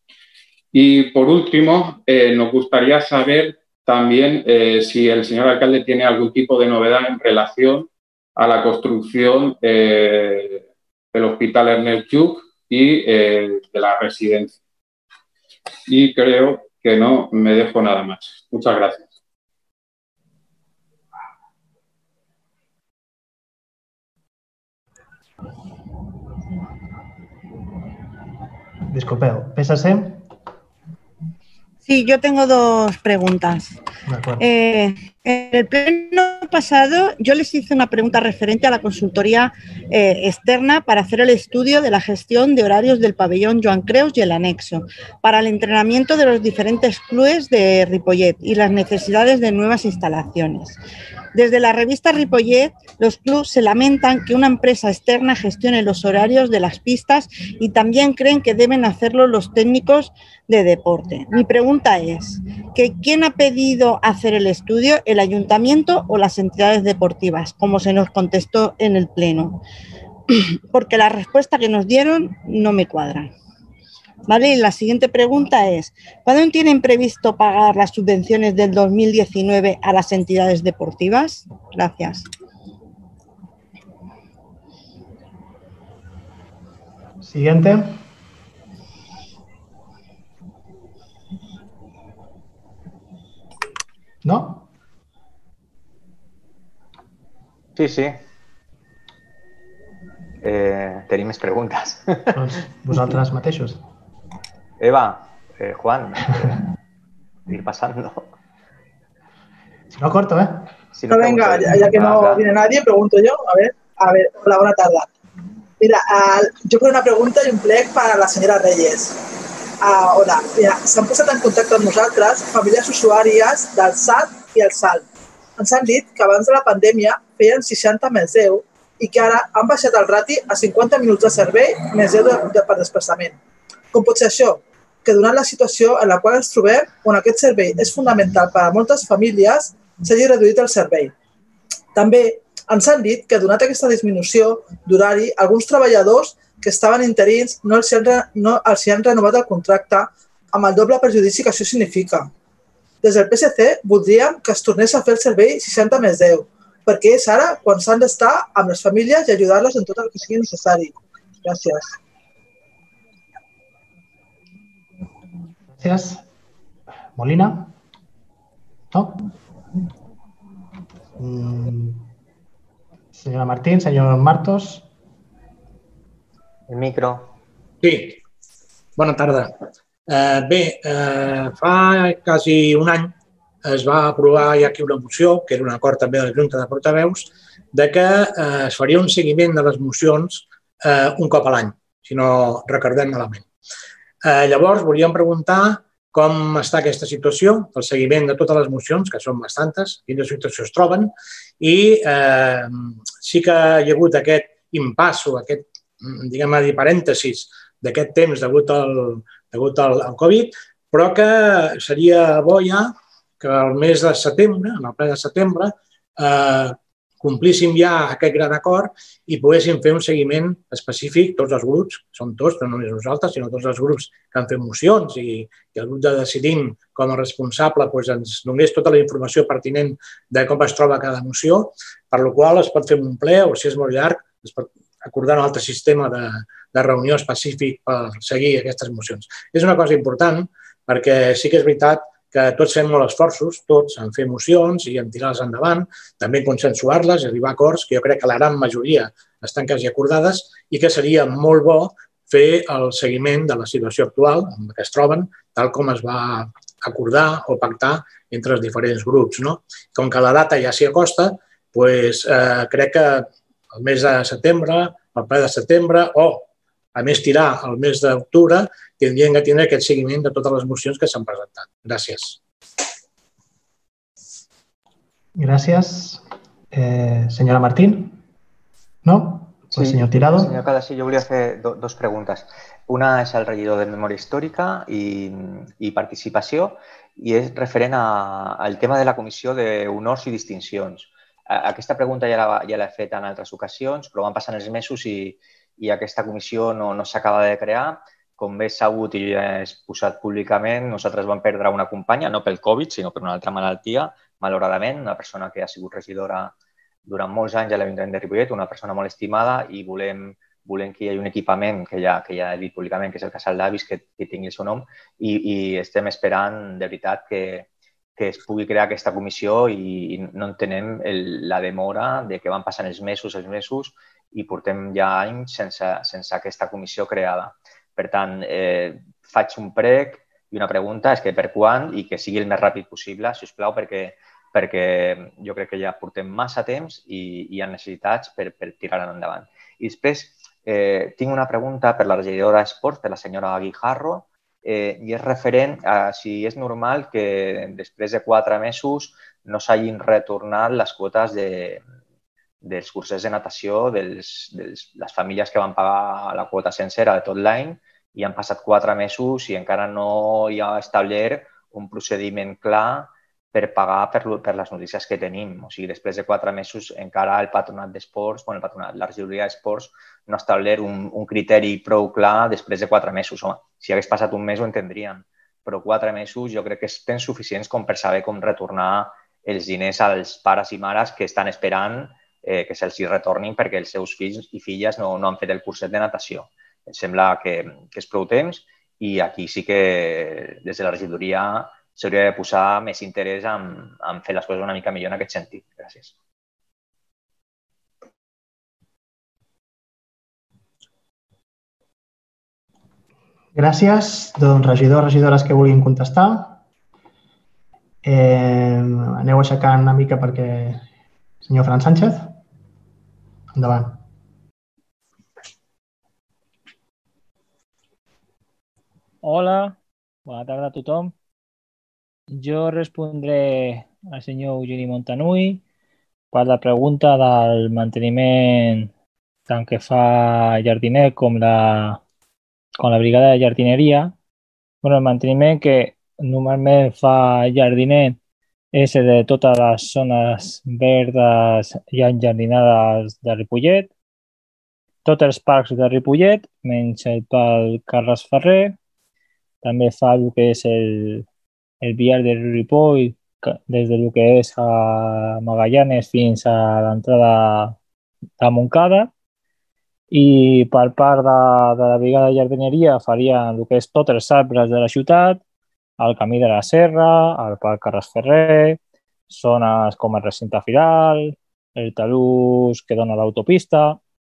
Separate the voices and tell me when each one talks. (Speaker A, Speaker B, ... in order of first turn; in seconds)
Speaker A: 0.7-14.6, 15.9-19.1
Speaker B: 28.9-30.2, 34.1-34.4, 87.2-88.0, 94.2-94.7, 102.3-103.8, 109.9-110.7, 165.8-166.2, 167.2-167.7, 168.9-169.3, 171.2-172.1, 173.1-174.8, 275.4-278.2, 279.0-280.5, 403.5-406.6, 408.0-410.8, 411.4-412.3, 413.5-414.0
Speaker C: 31.9-33.7, 34.4-50.8, 51.3-69.6, 70.7-73.3, 74.3-82.3
Speaker D: 97.8-98.2, 100.4-102.3, 104.8-106.6, 107.5-108.3, 110.9-112.4, 176.7-177.3, 279.7-306.5, 307.1-351.8, 352.6-396.1
Speaker E: 111.1-115.1, 115.8-119.2, 119.8-125.0, 125.6-133.4, 133.9-141.1, 141.9-152.3, 153.0-161.9
Speaker F: 177.8-178.2, 179.0-193.5, 194.2-272.4
Speaker G: 419.2-421.1, 422.3-425.6, 426.3-428.9, 429.5-432.0, 432.8-434.1, 434.8-438.2, 438.7-443.9, 445.0-448.8, 449.6-451.2, 451.8-457.8, 458.4-459.1, 460.1-465.4, 466.0-474.0